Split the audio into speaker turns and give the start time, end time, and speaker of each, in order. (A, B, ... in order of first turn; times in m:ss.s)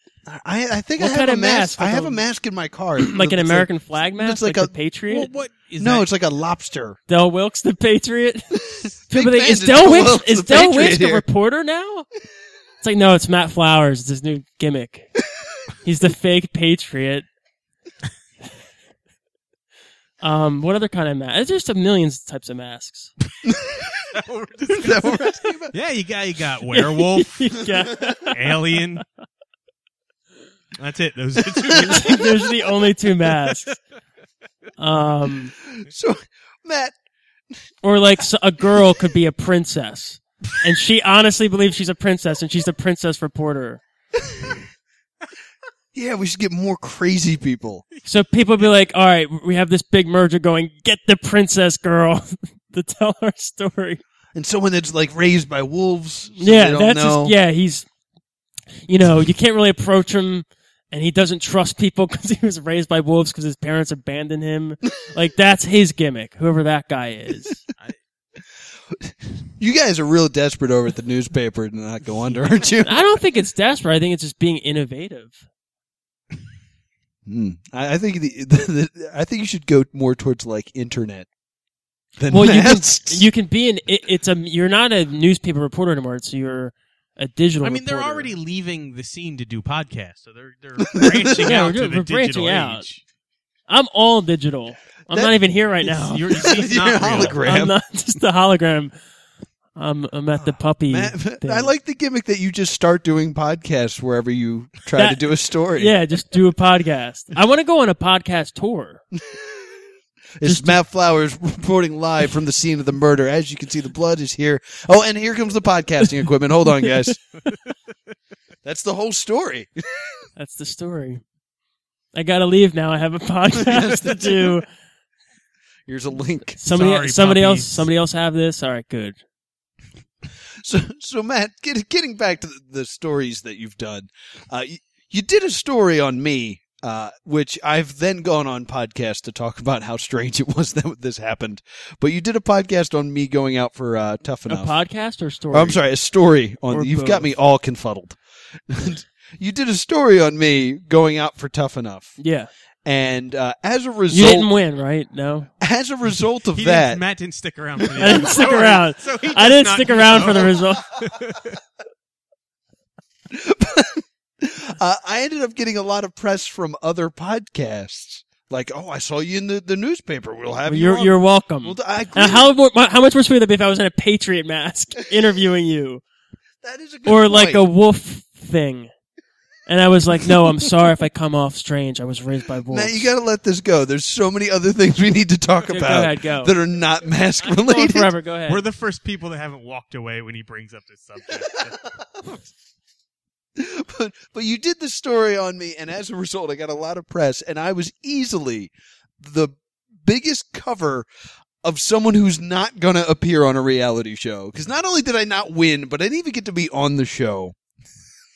0:00.3-0:04.7 A
0:01.0-0:02.2 B
0:03.0-0:05.3 B
0:05.1-0:06.1 C
0:05.8-0:07.0 A
0:07.1-0:12.1 B
0:08.6-0:11.2 A
0:12.8-0:15.1 B
0:15.8-0:17.3 B
0:20.2-0:23.1 B
0:23.4-0:24.1 A
0:24.1-0:27.6 C
0:24.7-0:25.8 A
0:26.7-0:28.6 B
0:28.3-0:29.0 C
0:30.8-0:32.5 C
0:31.7-0:33.8 B
0:31.8-0:32.2 A
0:34.8-0:35.5 B
0:35.6-0:37.0 A
0:37.8-0:43.8 B
0:44.2-0:44.6 A
0:45.9-0:47.8 A
0:48.0-0:54.0 B
0:54.3-0:57.4 A
0:56.4-0:57.9 B
0:58.8-1:07.6 B
1:08.9-1:13.0 A
1:12.8-1:15.4 B
1:17.2-1:21.3 A
1:22.2-1:23.3 A
1:22.3-1:28.3 B
1:27.6-1:33.0 C
1:30.8-1:31.6 A
1:31.4-1:32.8 B
1:33.7-1:36.4 B
1:35.1-1:35.4 A
1:36.0-1:37.4 C
1:36.3-1:37.7 A
1:37.1-1:38.9 B
1:39.7-1:41.7 B
1:40.9-1:45.9 A
1:44.9-1:49.0 B
1:49.1-1:49.9 A
1:50.4-1:57.2 A
1:50.4-1:50.8 B
1:58.6-2:00.3 A
2:00.4-2:01.2 B
2:02.1-2:04.6 B
2:03.5-2:04.6 A
2:05.9-2:06.6 A
2:06.6-2:09.2 B
2:06.6-2:07.9 C
2:10.6-2:24.8 A
2:24.5-2:25.8 B
2:25.5-2:32.2 A
2:26.7-2:27.3 B
2:32.2-2:32.5 B
2:32.8-2:34.5 A
2:34.1-2:35.5 B
2:35.6-2:37.0 A
2:36.5-2:41.6 C
2:38.0-2:40.9 B
2:38.0-2:38.3 A
2:40.2-2:40.6 A
2:43.3-2:52.5 A
2:50.7-2:56.0 B
2:56.6-2:57.6 A
2:57.0-2:58.9 B
2:59.7-3:03.1 B
3:02.7-3:08.1 A
3:05.7-3:06.5 B
3:07.4-3:08.6 B
3:08.5-3:12.3 C
3:11.4-3:12.2 A
3:13.6-3:21.1 A
3:21.6-3:27.6 A